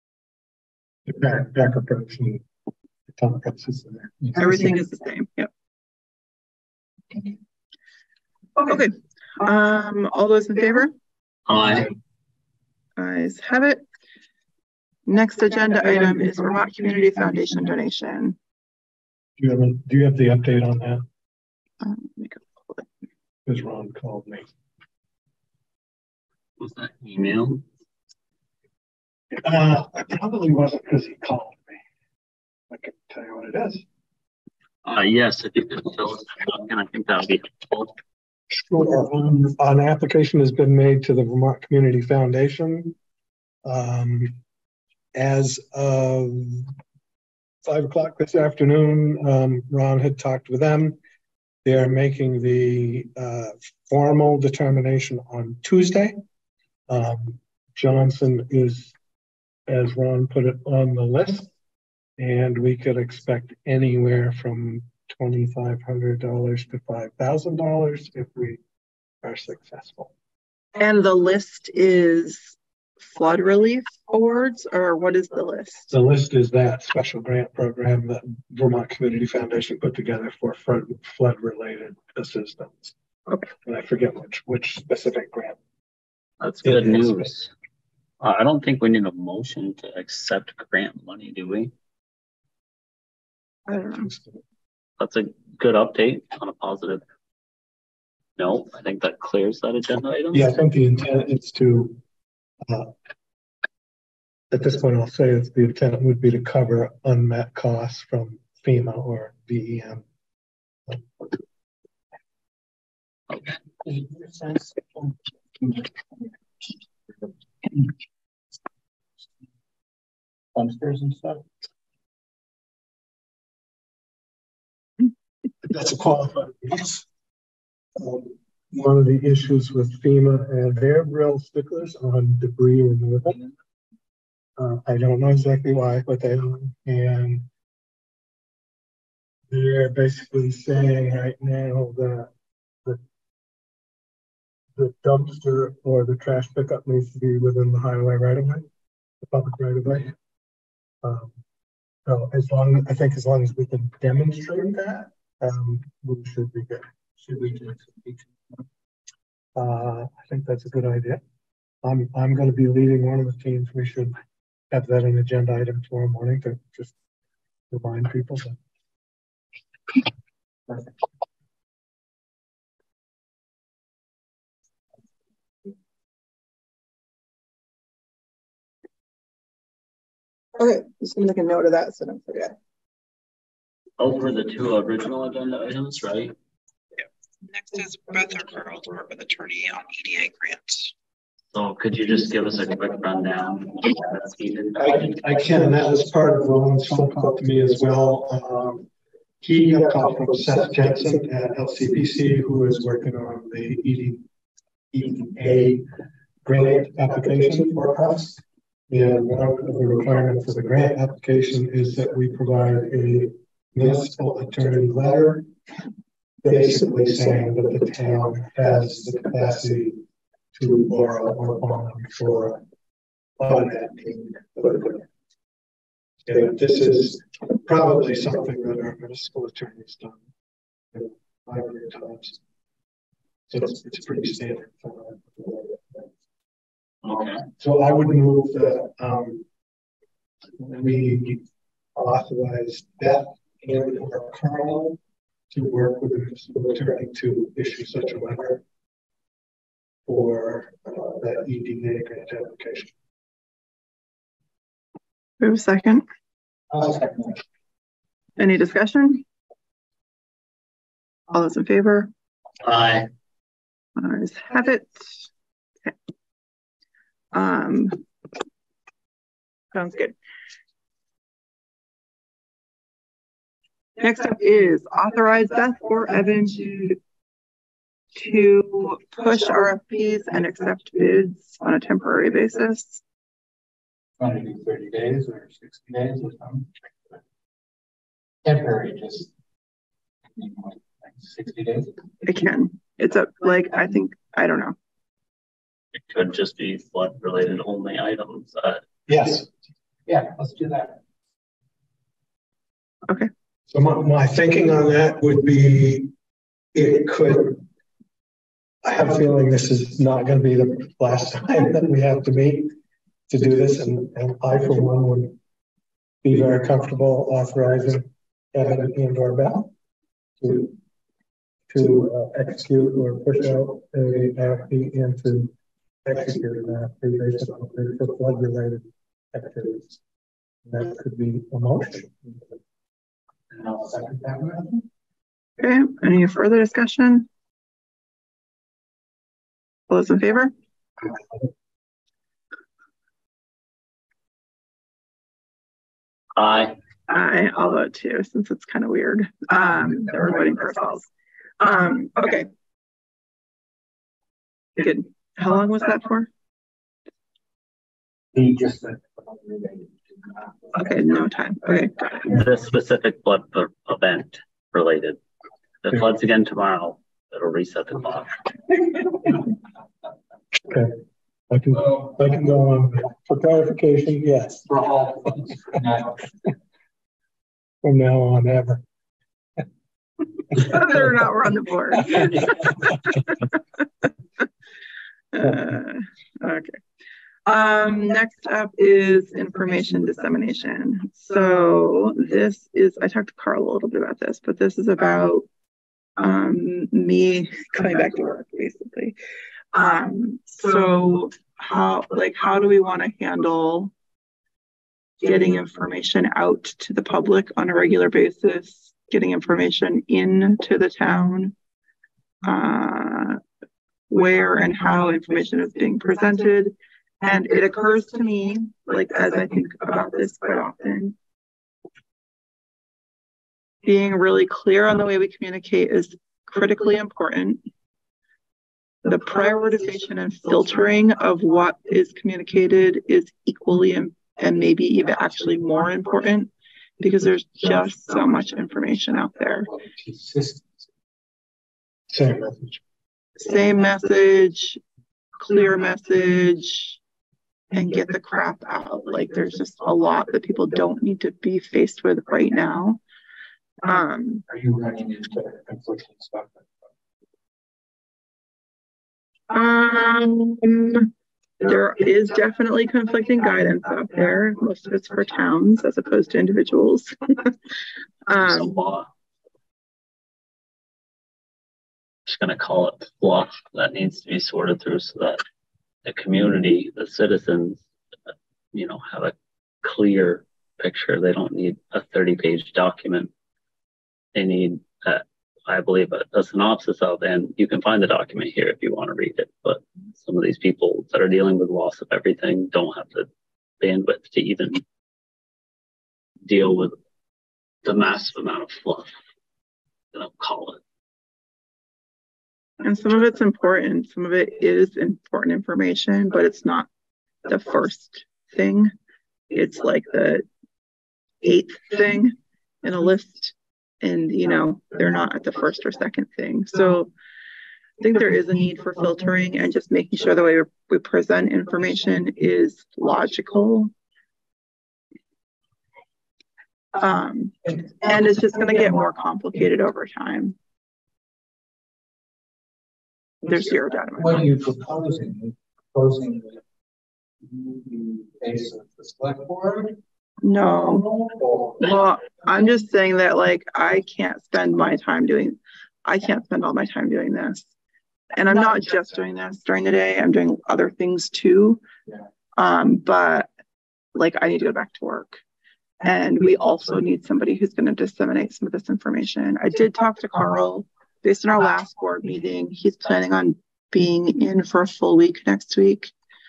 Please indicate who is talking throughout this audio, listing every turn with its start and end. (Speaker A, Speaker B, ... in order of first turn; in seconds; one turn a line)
Speaker A: 1.1-2.4
Speaker A: 3.1-4.3
Speaker B: 4.4-5.5
Speaker B: 8.6-10.9
Speaker C: 11.5-11.9
Speaker B: 13.0-13.8
Speaker B: 15.1-18.4
Speaker A: 19.4-21.1
Speaker B: 21.8-22.9
Speaker A: 23.5-24.5
Speaker C: 26.6-27.6
Speaker A: 29.3-31.8
Speaker A: 32.7-33.8
Speaker C: 34.9-38.0
Speaker A: 38.5-43.0
Speaker A: 43.6-44.4
Speaker A: 45.1-46.8
Speaker A: 47.6-51.0
Speaker A: 51.6-56.2
Speaker A: 56.9-59.0
Speaker A: 59.7-61.5
Speaker A: 62.2-68.6
Speaker A: 69.2-70.1
Speaker B: 70.8-72.6
Speaker B: 73.1-75.9
Speaker A: 75.9-82.9
Speaker A: 83.6-85.6
Speaker C: 86.4-87.5
Speaker A: 86.7-87.3
Speaker C: 88.2-91.7
Speaker B: 93.7-94.1
Speaker A: 93.7-94.4
Speaker C: 95.0-97.0
Speaker C: 98.4-100.5
Speaker A: 100.3-102.0
Speaker A: 102.7-102.9
Speaker A: 104.5-110.0
Speaker A: 110.9-111.4
Speaker D: 113.8-116.3
Speaker D: 120.5-121.4
Speaker A: 125.6-127.1
Speaker A: 128.0-133.4
Speaker A: 134.6-137.5
Speaker A: 139.5-142.3
Speaker A: 144.8-148.7
Speaker A: 149.2-150.2
Speaker A: 151.0-151.3
Speaker A: 152.1-156.9
Speaker D: 157.2-158.6
Speaker A: 159.6-161.2
Speaker A: 161.8-164.2
Speaker A: 164.7-166.9
Speaker A: 167.7-168.6
Speaker B: 180.6-182.6
Speaker C: 184.0-186.3
Speaker B: 187.4-190.9
Speaker C: 191.5-195.2
Speaker A: 194.8-198.9
Speaker A: 199.4-204.2
Speaker A: 204.9-205.9
Speaker A: 206.4-215.5
Speaker A: 216.4-220.0
Speaker A: 220.5-222.6
Speaker A: 223.4-225.1
Speaker A: 226.2-230.2
Speaker A: 230.9-232.4
Speaker A: 233.5-236.1
Speaker C: 237.0-237.5
Speaker A: 237.6-239.5
Speaker A: 240.6-245.0
Speaker A: 245.5-248.6
Speaker A: 250.1-252.9
Speaker B: 255.4-256.1
Speaker D: 256.7-257.4
Speaker B: 258.4-259.2
Speaker B: 261.3-262.1
Speaker C: 262.6-263.1
Speaker B: 264.0-265.1
Speaker B: 267.3-268.0
Speaker B: 269.7-270.1
Speaker B: 274.0-277.0
Speaker B: 278.1-283.0
Speaker D: 284.2-286.7
Speaker D: 288.4-289.3
Speaker D: 290.3-292.0
Speaker B: 292.2-294.8
Speaker C: 296.1-298.8
Speaker A: 299.1-299.5
Speaker D: 300.1-301.0
Speaker A: 303.7-306.1
Speaker A: 306.7-307.6
Speaker A: 308.8-312.7
Speaker A: 313.3-315.4
Speaker A: 316.2-319.7
Speaker A: 320.4-320.8
Speaker A: 321.7-325.5
Speaker A: 326.1-330.0
Speaker A: 330.7-332.6
Speaker D: 333.5-334.9
Speaker B: 335.6-337.3
Speaker B: 339.9-340.5
Speaker C: 346.4-346.8
Speaker B: 347.1-351.1
Speaker B: 351.6-352.5
Speaker B: 354.8-356.3
Speaker D: 358.3-360.8
Speaker B: 360.7-362.3
Speaker C: 362.3-365.2
Speaker C: 365.8-368.5
Speaker A: 370.6-371.0
Speaker A: 371.5-374.7
Speaker D: 374.7-376.3
Speaker A: 377.8-378.8
Speaker B: 380.5-382.5
Speaker B: 383.3-383.6
Speaker B: 385.3-386.8
Speaker B: 387.5-395.5
Speaker B: 396.2-399.2
Speaker B: 399.7-403.9
Speaker B: 405.2-411.6
Speaker B: 412.4-413.4
Speaker B: 414.1-421.2
Speaker B: 423.8-427.6
Speaker B: 429.1-439.7
Speaker D: 439.7-440.9
Speaker A: 442.1-442.8
Speaker B: 443.4-444.8
Speaker B: 445.4-447.0
Speaker B: 447.7-453.0
Speaker B: 453.8-454.4
Speaker D: 454.5-456.7
Speaker B: 459.5-467.6
Speaker B: 468.3-468.7
Speaker C: 468.4-469.1
Speaker C: 472.3-475.4
Speaker C: 476.1-477.8
Speaker C: 478.7-483.3
Speaker C: 484.3-493.3
Speaker C: 493.8-494.8
Speaker C: 496.4-496.9
Speaker C: 497.8-499.1
Speaker C: 500.1-500.8
Speaker B: 502.8-506.9
Speaker B: 507.5-508.9
Speaker B: 509.5-510.4
Speaker B: 511.4-517.1
Speaker B: 518.0-523.9
Speaker B: 527.0-530.6
Speaker B: 533.4-534.5
Speaker D: 534.1-536.6
Speaker D: 537.4-540.0
Speaker B: 540.4-541.1
Speaker D: 541.0-541.8
Speaker B: 541.8-547.7
Speaker B: 548.3-551.8
Speaker B: 552.6-553.5
Speaker B: 554.1-555.4
Speaker B: 556.0-566.1